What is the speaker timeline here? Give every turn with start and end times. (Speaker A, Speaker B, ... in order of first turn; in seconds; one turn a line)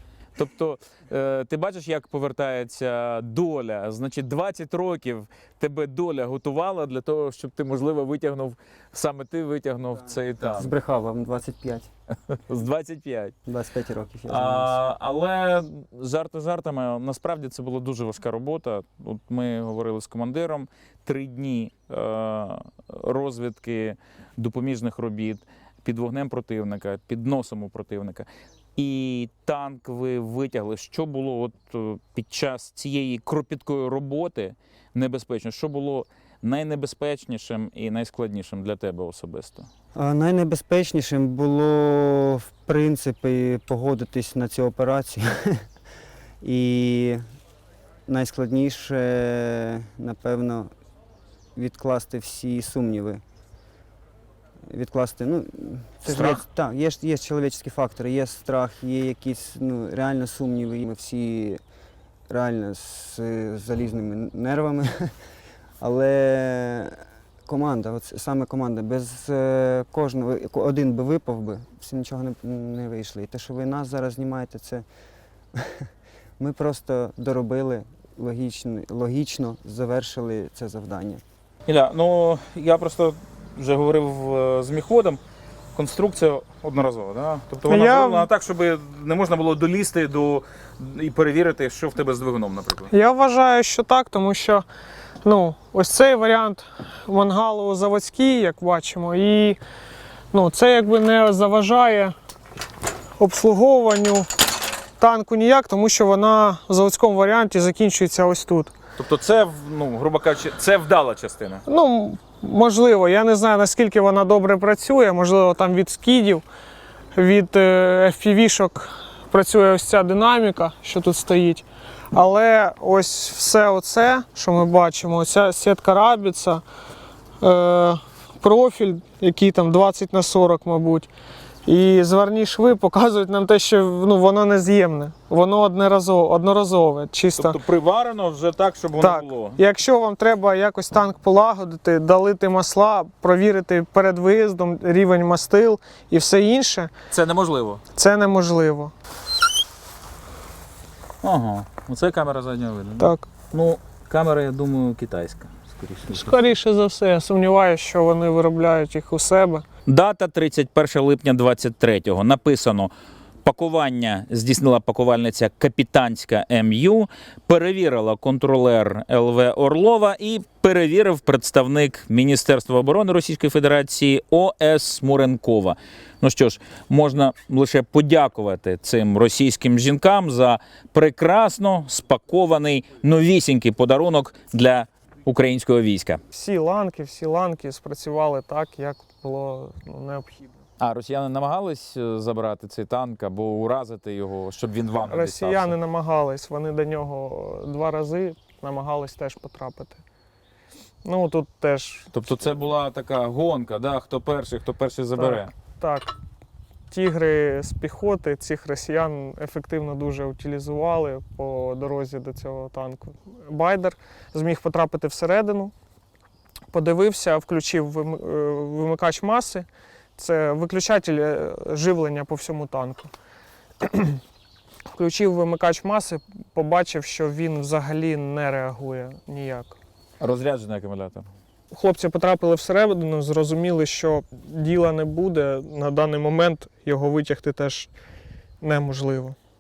Speaker A: 0.3-10.7
Speaker B: 10.6-11.9
Speaker A: 12.3-13.3
Speaker B: 13.5-14.8
Speaker A: 14.3-39.7
Speaker B: 40.0-45.6
Speaker B: 46.4-47.2
Speaker B: 48.1-50.7
Speaker B: 51.5-53.2
Speaker B: 54.7-61.6
Speaker A: 56.1-56.4
Speaker B: 62.3-65.1
Speaker B: 65.8-74.8
Speaker B: 75.5-75.9
Speaker B: 76.4-81.2
Speaker A: 81.7-85.2
Speaker A: 85.8-92.9
Speaker C: 87.7-88.3
Speaker C: 92.9-94.7
Speaker C: 95.2-99.6
Speaker C: 100.3-102.2
Speaker C: 103.2-104.3
Speaker C: 105.0-108.7
Speaker A: 109.0-111.6
Speaker C: 111.7-116.4
Speaker C: 117.2-126.6
Speaker C: 127.4-131.1
Speaker C: 131.7-137.6
Speaker A: 137.3-139.6
Speaker C: 139.0-146.9
Speaker A: 147.1-147.8
Speaker C: 147.9-148.9
Speaker A: 151.2-156.4
Speaker C: 153.0-153.3
Speaker C: 156.1-159.7
Speaker A: 159.9-162.9
Speaker A: 163.4-186.2
Speaker C: 186.3-190.5
Speaker A: 190.8-195.8
Speaker C: 195.1-200.0
Speaker C: 201.1-202.1
Speaker A: 202.1-205.5
Speaker C: 205.2-206.1
Speaker C: 206.9-215.7
Speaker C: 216.7-223.1
Speaker C: 223.8-224.2
Speaker C: 224.9-229.8
Speaker A: 230.2-231.3
Speaker C: 231.7-237.9
Speaker C: 238.6-239.4